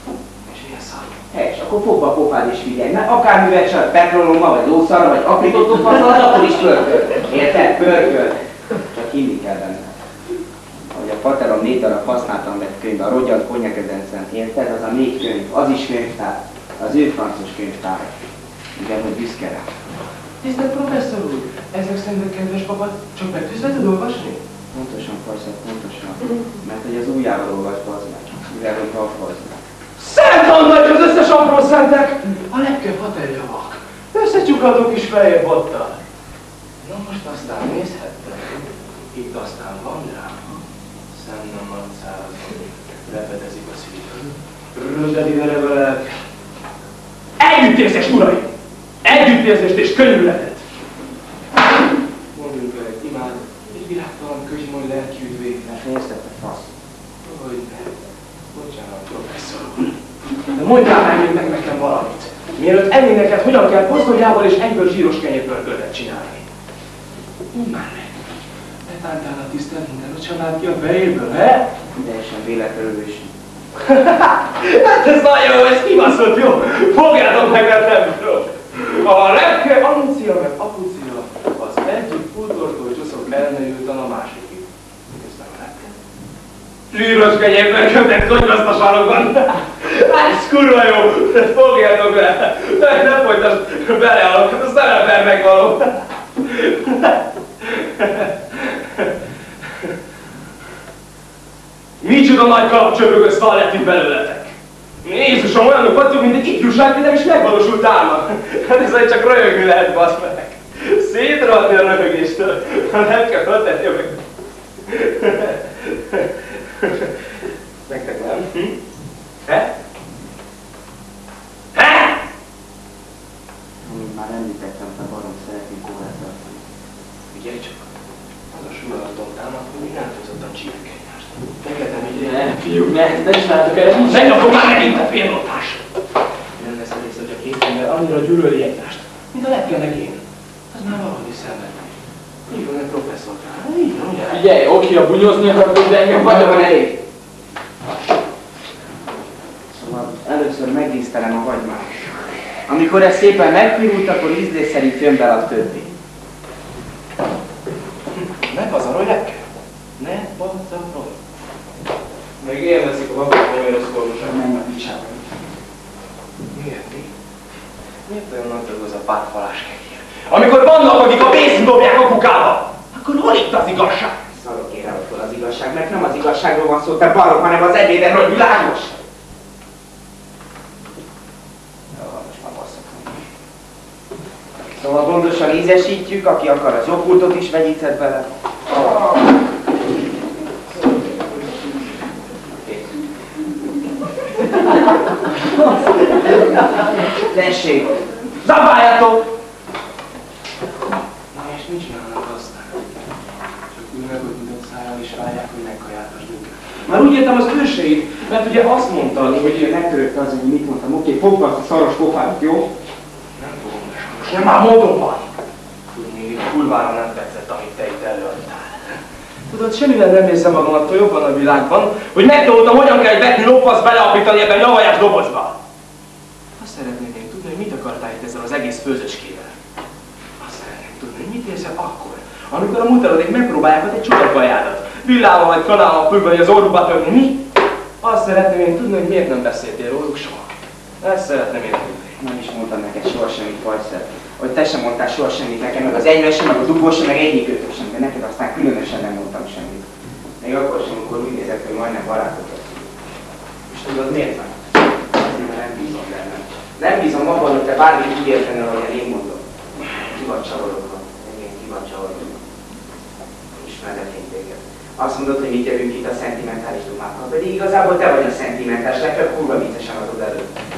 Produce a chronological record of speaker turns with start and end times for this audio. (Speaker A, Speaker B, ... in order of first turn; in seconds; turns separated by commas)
Speaker A: 0.5-1.2, Speaker B: 1.3-10.0, Speaker B: 10.9-18.1, Speaker B: 18.8-19.7, Speaker A: 20.4-24.4, Speaker B: 24.7-29.6, Speaker A: 30.0-36.0, Speaker A: 36.8-40.6, Speaker A: 41.1-46.2, Speaker A: 47.4-48.5, Speaker A: 49.0-50.6, Speaker A: 52.3-55.6, Speaker B: 55.6-56.7, Speaker A: 57.2-57.9, Speaker A: 58.5-60.0, Speaker A: 60.5-66.4, Speaker A: 67.5-68.1, Speaker A: 68.8-71.7, Speaker B: 71.9-73.3, Speaker A: 73.8-86.0, Speaker A: 86.9-99.1, Speaker A: 102.0-114.2, Speaker A: 114.9-117.1, Speaker B: 117.9-118.4, Speaker A: 117.9-118.8, Speaker A: 121.7-122.2, Speaker B: 123.8-126.6, Speaker A: 127.3-127.8, Speaker A: 128.5-132.6, Speaker C: 132.1-134.4, Speaker A: 134.0-135.8, Speaker A: 136.6-141.9, Speaker A: 142.5-144.4, Speaker C: 144.3-147.0, Speaker B: 146.1-146.8, Speaker B: 149.7-152.1, Speaker B: 152.7-155.9, Speaker A: 158.4-159.4, Speaker A: 160.0-161.2, Speaker A: 162.4-164.3, Speaker B: 164.2-165.2, Speaker A: 166.5-167.1, Speaker A: 168.1-174.1, Speaker B: 174.3-179.0, Speaker B: 181.9-183.2, Speaker B: 184.8-189.0, Speaker B: 192.5-192.9, Speaker A: 196.2-196.6, Speaker B: 197.1-198.0, Speaker A: 198.4-199.2, Speaker A: 201.3-202.8, Speaker A: 203.8-209.7, Speaker B: 209.2-212.7, Speaker A: 213.3-215.3, Speaker A: 215.9-219.0, Speaker A: 219.5-225.6, Speaker A: 226.6-229.5, Speaker A: 230.4-237.4, Speaker A: 238.0-240.5, Speaker A: 241.0-242.2, Speaker B: 242.2-249.8, Speaker B: 250.4-252.9, Speaker B: 253.7-259.4, Speaker B: 260.0-262.4, Speaker B: 263.6-270.5